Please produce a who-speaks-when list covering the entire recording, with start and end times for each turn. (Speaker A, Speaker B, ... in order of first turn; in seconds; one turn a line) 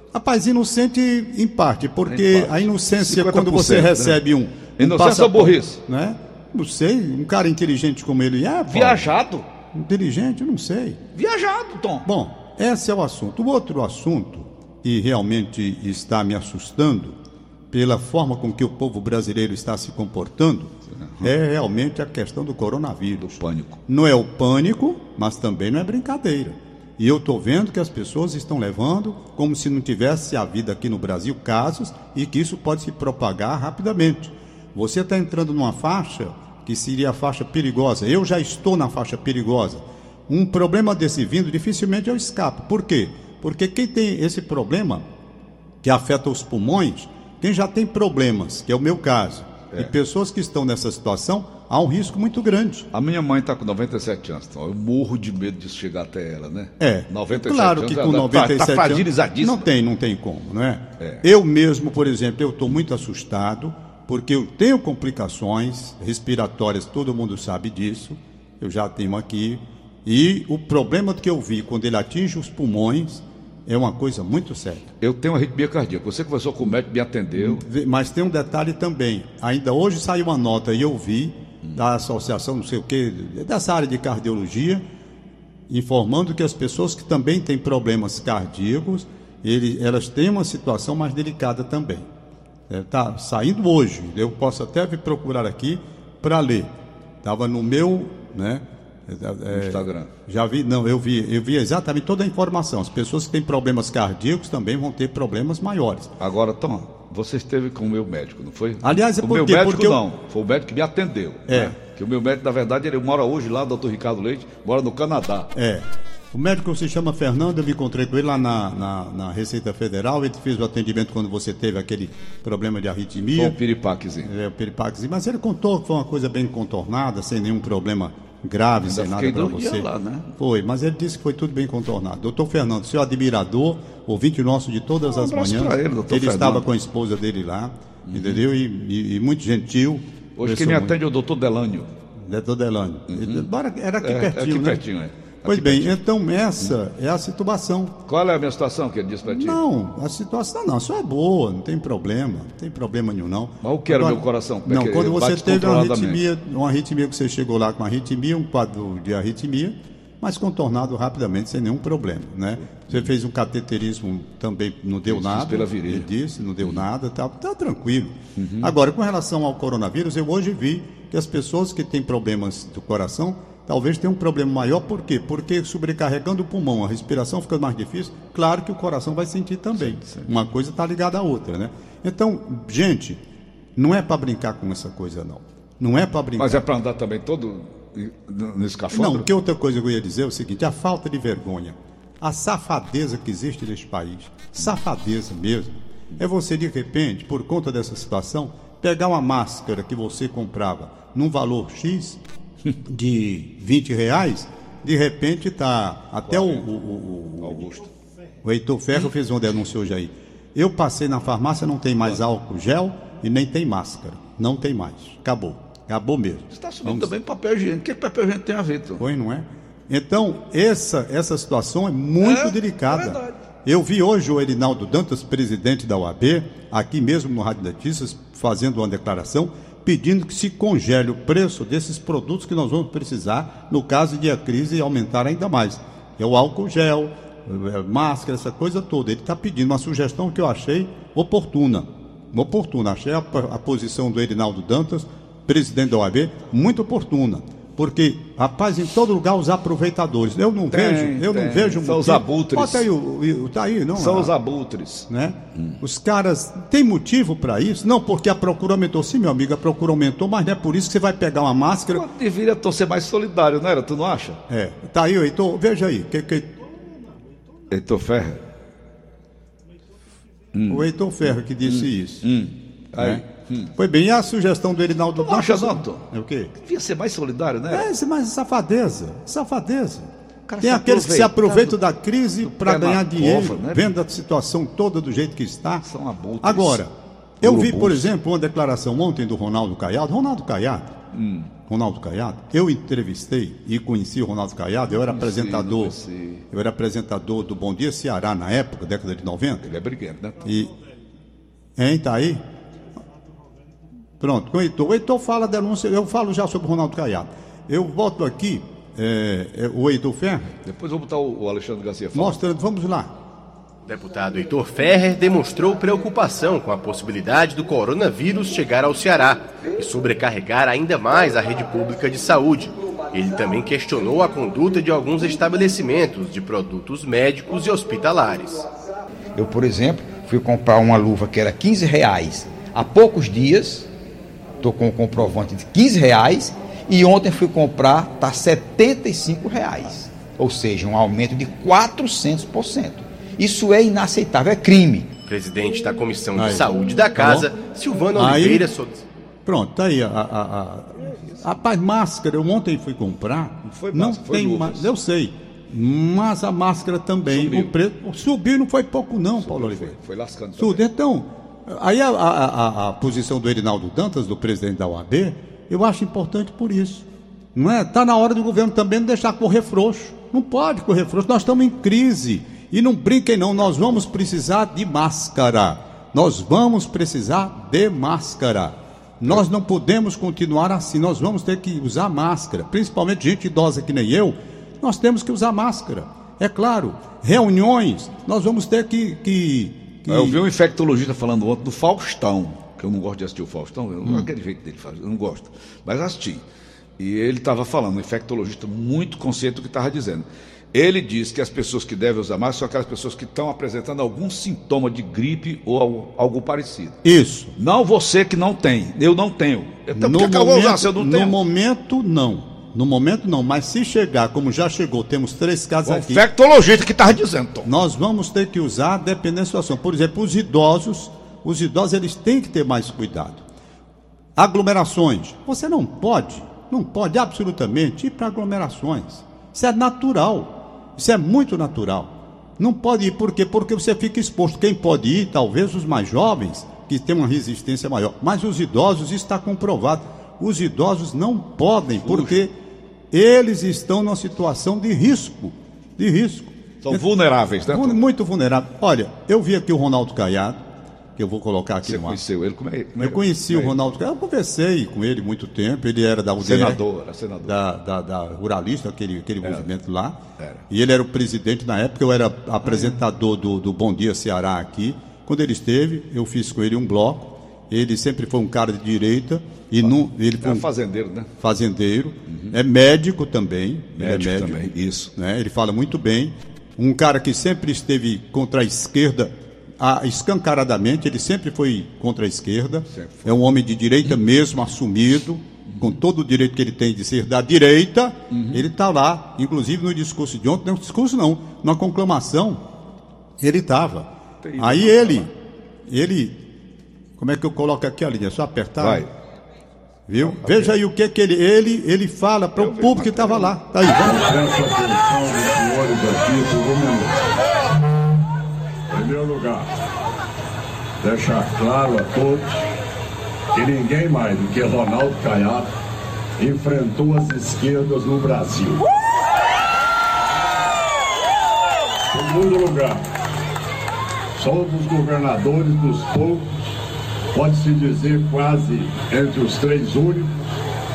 Speaker A: 0.1-9.1
Speaker B: 2.1-4.2
Speaker B: 4.8-5.8
Speaker B: 8.7-9.5
Speaker A: 9.7-11.0
Speaker B: 11.1-12.1
Speaker A: 12.0-17.2
Speaker A: 17.7-45.0
Speaker B: 20.9-21.3
Speaker B: 23.2-23.8
Speaker A: 45.8-52.9
Speaker B: 52.9-59.6
Speaker A: 56.8-74.9
Speaker B: 75.0-77.6
Speaker A: 77.4-84.8
Speaker A: 85.7-92.1
Speaker A: 92.7-96.7
Speaker A: 97.2-106.1
Speaker B: 99.5-100.1
Speaker B: 106.2-115.5
Speaker A: 108.8-110.0
Speaker A: 111.5-111.8
Speaker A: 115.5-123.5
Speaker B: 123.4-124.3
Speaker A: 124.2-141.0
Speaker B: 128.8-130.3
Speaker B: 135.0-136.7
Speaker B: 138.1-138.4
Speaker B: 140.4-141.9
Speaker A: 142.2-144.8
Speaker B: 143.1-143.5
Speaker B: 144.0-146.0
Speaker A: 145.4-147.9
Speaker B: 148.1-149.6
Speaker A: 149.2-183.2
Speaker B: 153.6-156.2
Speaker B: 162.6-163.1
Speaker B: 165.0-166.1
Speaker B: 168.4-168.7
Speaker B: 179.8-180.3
Speaker A: 183.8-186.7
Speaker B: 186.4-189.3
Speaker A: 188.9-202.2
Speaker A: 202.8-207.7
Speaker B: 206.3-206.7
Speaker B: 207.4-207.9
Speaker A: 208.4-217.1
Speaker B: 216.5-219.0
Speaker A: 219.0-254.3
Speaker B: 222.2-223.3
Speaker B: 250.7-252.9
Speaker B: 253.9-255.8
Speaker A: 255.1-262.1
Speaker B: 261.9-264.4
Speaker A: 264.5-266.6
Speaker B: 267.7-268.4
Speaker B: 270.5-270.9
Speaker A: 270.7-272.3
Speaker B: 271.6-273.7
Speaker A: 273.0-273.2
Speaker A: 273.8-276.5
Speaker B: 275.2-276.0
Speaker B: 276.5-277.9
Speaker A: 277.7-285.9
Speaker B: 280.5-281.8
Speaker B: 282.4-283.9
Speaker B: 285.8-286.8
Speaker A: 286.4-291.0
Speaker B: 287.4-288.1
Speaker B: 291.1-291.5
Speaker A: 291.6-296.0
Speaker B: 294.9-296.4
Speaker A: 296.5-299.6
Speaker B: 299.6-300.4
Speaker A: 300.4-300.7
Speaker A: 301.8-302.4
Speaker A: 304.2-310.5
Speaker B: 310.6-312.4
Speaker A: 312.1-313.1
Speaker C: 313.9-328.7
Speaker D: 329.4-333.9
Speaker D: 334.6-345.1
Speaker C: 345.2-349.0
Speaker A: 346.4-347.5
Speaker A: 348.1-348.7
Speaker A: 349.4-359.9
Speaker B: 351.0-351.4
Speaker B: 353.6-354.9
Speaker B: 357.2-357.7
Speaker B: 359.4-360.8
Speaker A: 360.6-390.4
Speaker B: 390.1-396.4
Speaker B: 397.0-407.0
Speaker A: 407.0-407.5
Speaker B: 407.6-411.4
Speaker A: 409.9-416.2
Speaker B: 415.9-417.7
Speaker A: 417.6-423.4
Speaker A: 424.4-442.5
Speaker B: 442.0-442.4
Speaker A: 443.1-447.0
Speaker B: 446.8-448.0
Speaker A: 447.6-450.6
Speaker A: 451.1-452.2
Speaker B: 451.8-453.9
Speaker A: 453.0-456.8
Speaker B: 456.4-457.6
Speaker A: 457.4-470.7
Speaker B: 459.4-459.7
Speaker B: 460.4-460.6
Speaker B: 462.6-463.0
Speaker B: 470.4-471.3
Speaker A: 471.4-492.6
Speaker B: 472.3-472.6
Speaker B: 474.0-475.1
Speaker B: 482.9-483.4
Speaker B: 485.6-486.0
Speaker B: 488.3-488.7
Speaker A: 493.4-495.3
Speaker B: 494.4-495.2
Speaker A: 495.9-496.4
Speaker A: 497.2-499.1
Speaker B: 498.8-499.1
Speaker A: 500.1-504.2
Speaker B: 500.2-500.7
Speaker B: 502.6-503.6
Speaker E: 504.0-507.2
Speaker E: 508.9-509.7
Speaker E: 511.0-512.7
Speaker E: 513.5-515.7
Speaker E: 516.4-518.9
Speaker E: 522.1-523.0
Speaker E: 524.4-526.5
Speaker E: 527.3-530.3